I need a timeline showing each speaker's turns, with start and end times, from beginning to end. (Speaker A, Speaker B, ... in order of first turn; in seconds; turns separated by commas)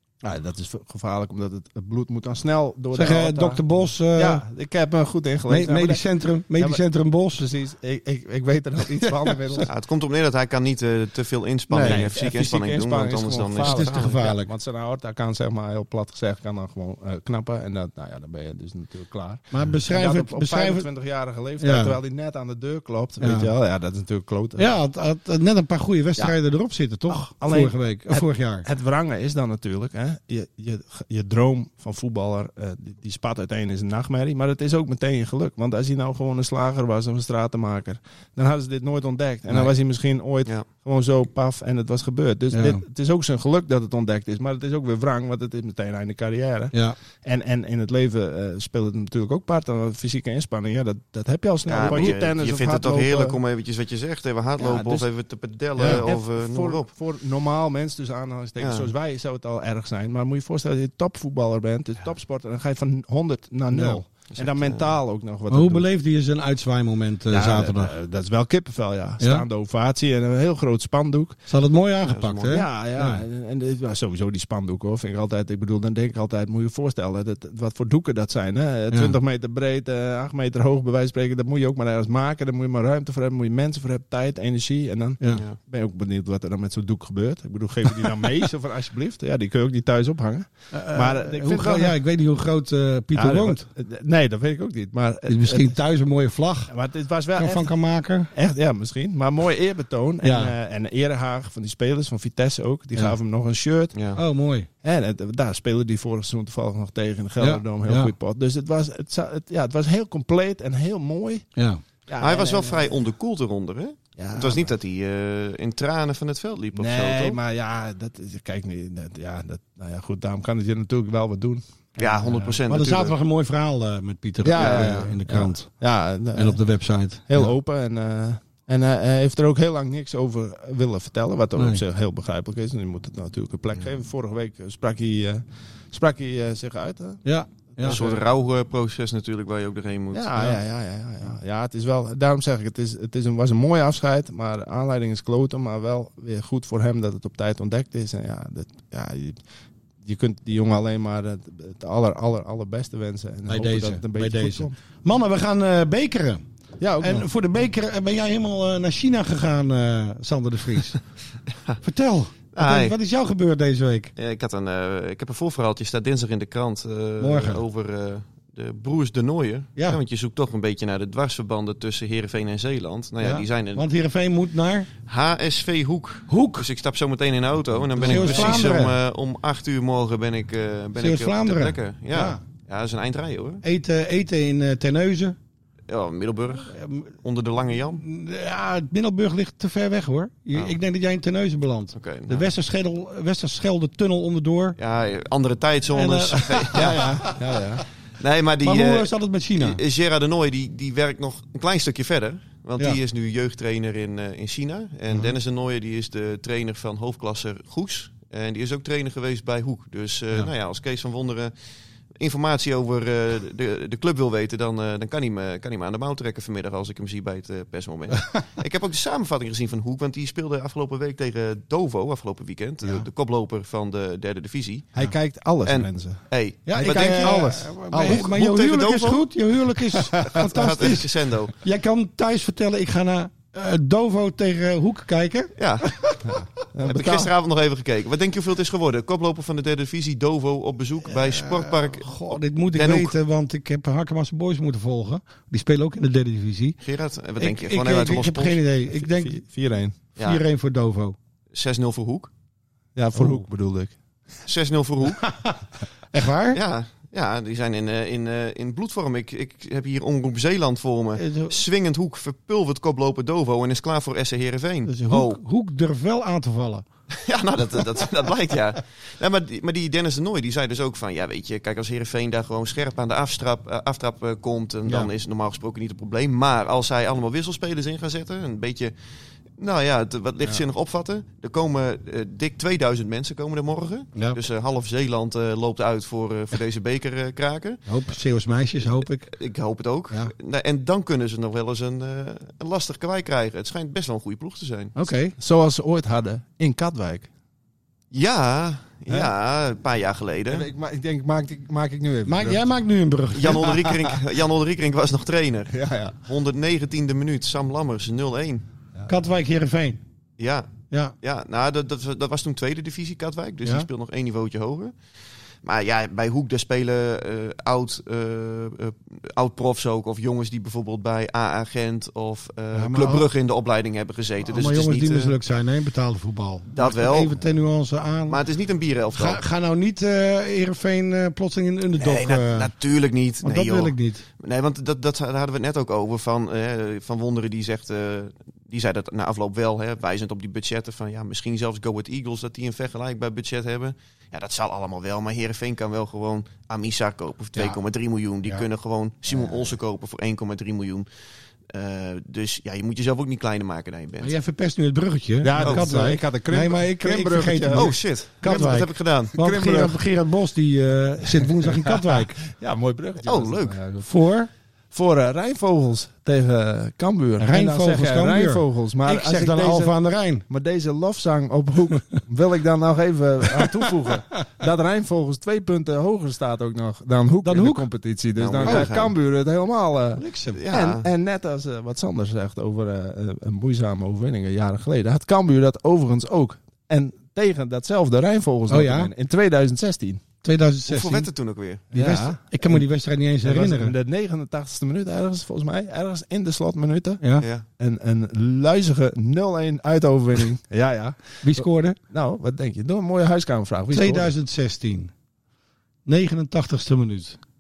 Speaker A: 0.2-6.8, Speaker B: 2.9-4.4, Speaker B: 5.5-7.5, Speaker A: 7.3-9.7, Speaker C: 9.7-14.2, Speaker B: 11.7-12.1, Speaker A: 11.8-24.8, Speaker B: 13.6-14.5, Speaker B: 19.5-20.9, Speaker B: 21.6-22.0, Speaker B: 23.2-23.5, Speaker B: 24.6-28.6, Speaker A: 27.1-53.4, Speaker B: 42.5-42.8, Speaker C: 51.7-56.9, Speaker A: 54.6-55.1, Speaker B: 55.8-56.0, Speaker A: 55.8-65.9, Speaker C: 58.6-58.9, Speaker B: 63.7-64.0, Speaker C: 64.3-64.9, Speaker B: 65.5-67.9, Speaker A: 67.3-71.4, Speaker B: 71.5-73.2, Speaker C: 72.1-72.6, Speaker A: 72.5-92.0, Speaker B: 78.9-79.2, Speaker B: 90.7-93.7, Speaker A: 93.1-95.8, Speaker B: 95.3-96.7, Speaker A: 96.7-97.7, Speaker B: 97.4-98.3, Speaker A: 98.3-103.9, Speaker B: 100.2-100.5, Speaker C: 103.9-104.2, Speaker B: 104.1-104.7, Speaker A: 104.8-111.5, Speaker B: 107.4-108.1, Speaker B: 111.6-111.8, Speaker A: 112.1-113.0, Speaker C: 112.2-117.4, Speaker A: 114.2-114.7, Speaker A: 116.8-122.5, Speaker C: 122.0-123.2, Speaker B: 122.3-125.7, Speaker A: 124.4-126.6, Speaker C: 124.6-125.1, Speaker B: 126.3-127.5, Speaker A: 127.3-137.2, Speaker B: 131.6-131.8, Speaker B: 137.2-138.0, Speaker A: 137.8-138.2, Speaker C: 137.8-140.5, Speaker A: 140.1-149.4, Speaker A: 150.0-154.7, Speaker B: 153.5-156.4, Speaker A: 156.8-157.3, Speaker B: 157.0-161.0, Speaker B: 161.8-164.1, Speaker C: 162.5-162.9, Speaker C: 164.2-173.9, Speaker B: 167.2-167.6, Speaker B: 173.2-174.9, Speaker C: 175.1-183.6, Speaker B: 176.3-176.7, Speaker B: 178.0-179.0, Speaker A: 178.1-178.6, Speaker B: 181.0-182.4, Speaker B: 183.6-185.4, Speaker C: 185.9-188.0, Speaker B: 186.7-187.1, Speaker B: 188.0-194.8, Speaker C: 191.9-192.5, Speaker C: 194.8-197.1, Speaker B: 195.9-197.5, Speaker A: 196.7-197.8, Speaker C: 198.2-211.5, Speaker B: 198.6-199.8, Speaker C: 212.2-224.9, Speaker A: 225.0-228.3, Speaker C: 225.6-229.3, Speaker B: 226.7-231.1, Speaker A: 229.9-230.6, Speaker C: 230.3-231.5, Speaker B: 231.6-236.4, Speaker C: 235.6-236.0, Speaker A: 236.3-237.3, Speaker C: 236.9-243.1, Speaker B: 241.1-246.8, Speaker C: 246.8-248.6, Speaker B: 247.4-249.4, Speaker A: 248.9-250.0, Speaker C: 250.2-250.4, Speaker B: 250.2-251.2, Speaker C: 251.5-252.3, Speaker A: 252.9-254.0, Speaker B: 253.1-253.4, Speaker C: 254.4-255.3, Speaker B: 256.1-256.6, Speaker C: 256.5-265.4, Speaker B: 261.2-261.6, Speaker B: 264.9-266.9, Speaker C: 267.2-278.9, Speaker C: 279.6-287.8, Speaker B: 287.9-289.3, Speaker C: 289.3-295.0, Speaker B: 295.0-295.4, Speaker A: 295.4-297.3, Speaker C: 298.1-300.6, Speaker A: 300.5-302.7, Speaker B: 302.3-303.7, Speaker C: 303.3-308.6, Speaker A: 303.6-304.2, Speaker A: 305.7-306.2, Speaker B: 309.1-310.0, Speaker C: 310.4-310.7, Speaker C: 311.2-314.9, Speaker C: 315.6-325.3, Speaker B: 322.7-323.3, Speaker B: 324.5-328.4, Speaker C: 326.8-327.4, Speaker C: 328.3-329.4, Speaker B: 329.1-332.7, Speaker C: 332.0-351.1, Speaker B: 333.4-334.2, Speaker C: 351.7-354.3, Speaker B: 354.2-362.4, Speaker A: 355.4-358.6, Speaker C: 355.6-355.9, Speaker C: 357.7-359.3, Speaker A: 359.3-360.0, Speaker A: 361.3-364.1, Speaker C: 363.3-363.8, Speaker B: 364.0-364.5, Speaker A: 364.9-390.2, Speaker B: 367.4-370.4, Speaker B: 377.4-377.9, Speaker C: 378.4-379.1, Speaker B: 378.6-378.9, Speaker B: 380.2-380.6, Speaker C: 380.5-381.1, Speaker B: 388.7-389.1, Speaker B: 390.4-391.3, Speaker C: 390.9-391.9, Speaker A: 391.9-392.9, Speaker B: 391.9-393.9, Speaker A: 393.4-397.2, Speaker C: 397.4-397.6, Speaker A: 397.8-404.3, Speaker B: 401.4-402.0, Speaker B: 403.9-405.1, Speaker B: 406.1-407.4